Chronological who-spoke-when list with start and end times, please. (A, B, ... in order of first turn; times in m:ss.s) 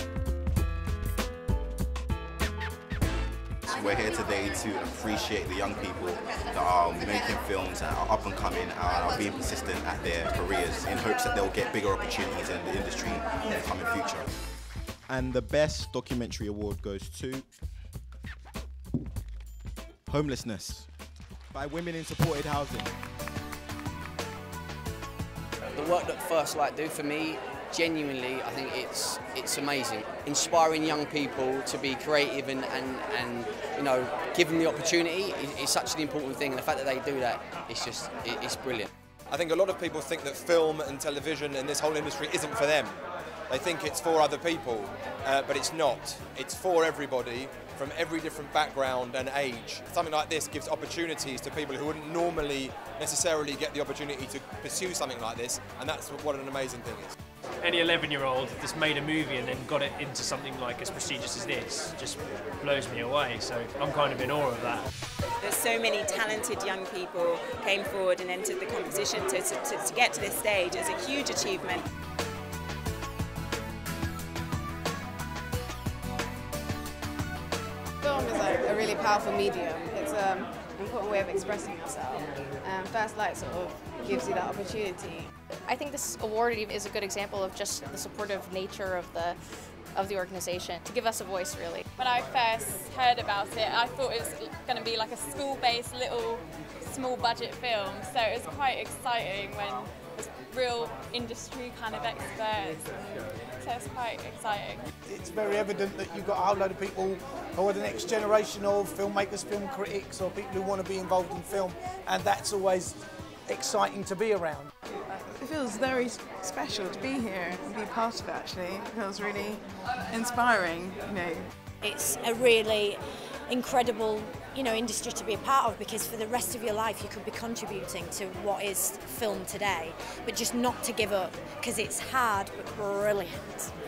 0:03.7-0:14.3 A
0:15.1-0:17.5 B
0:20.1-0:20.9 B
0:21.5-0:22.9 B
0:25.7-0:38.9 C
0:39.3-0:43.0 D
0:43.5-0:57.2 D
0:57.6-1:04.8 E
1:05.4-1:11.8 F
1:18.0-1:25.3 G
1:25.7-1:29.4 H
1:29.9-1:31.8 H
1:32.0-1:44.8 I
1:45.1-1:53.0 J
1:53.5-1:54.7 J
1:55.3-2:01.5 K
2:01.8-2:13.7 L